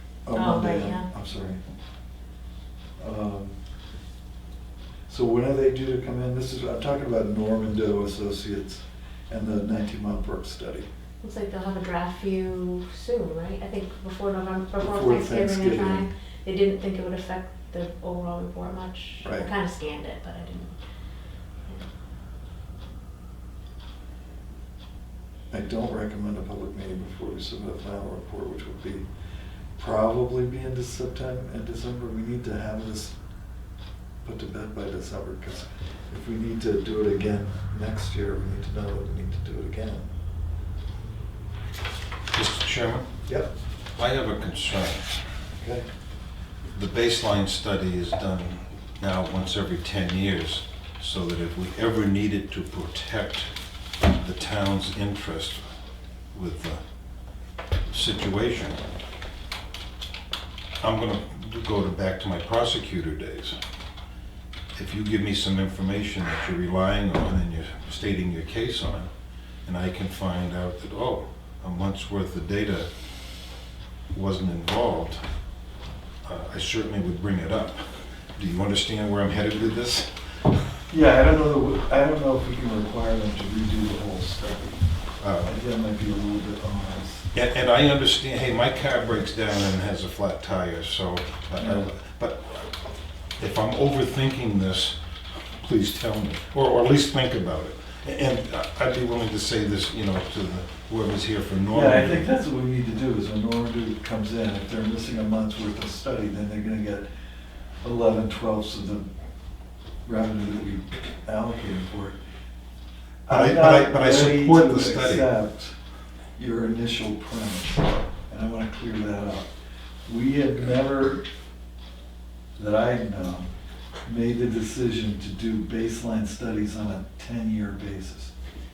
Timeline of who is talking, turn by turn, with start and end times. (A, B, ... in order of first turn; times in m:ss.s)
0:00.3-0:01.6 A
0:00.3-0:01.1 B
0:03.0-0:03.5 A
0:05.1-0:10.9 A
0:11.2-0:20.8 B
0:14.8-0:16.1 A
0:19.2-0:19.5 A
0:25.5-0:29.1 A
0:29.8-0:33.2 A
0:34.2-0:40.1 A
0:42.3-0:43.1 C
0:44.0-0:45.1 C
0:45.6-0:45.9 A
0:46.7-0:53.5 C
0:54.1-0:55.6 C
0:56.3-0:56.8 C
0:57.9-0:58.8 C
1:00.8-1:03.6 C
1:04.8-1:09.1 C
1:09.6-1:12.9 C
1:14.1-1:15.2 C
1:16.2-1:20.6 C
1:20.9-1:24.8 A
1:25.2-1:25.5 C
1:25.4-1:27.3 A
1:27.3-1:32.6 C
1:33.4-1:35.0 C
1:35.5-1:42.3 C
1:41.7-1:47.1 A
1:47.8-1:49.1 A
1:50.0-1:52.2 A
1:53.3-1:55.8 A
1:53.3-1:55.3 C
1:56.4-1:59.5 A
2:00.1-2:01.2 A
2:02.6-2:03.5 A
2:04.0-2:08.3 A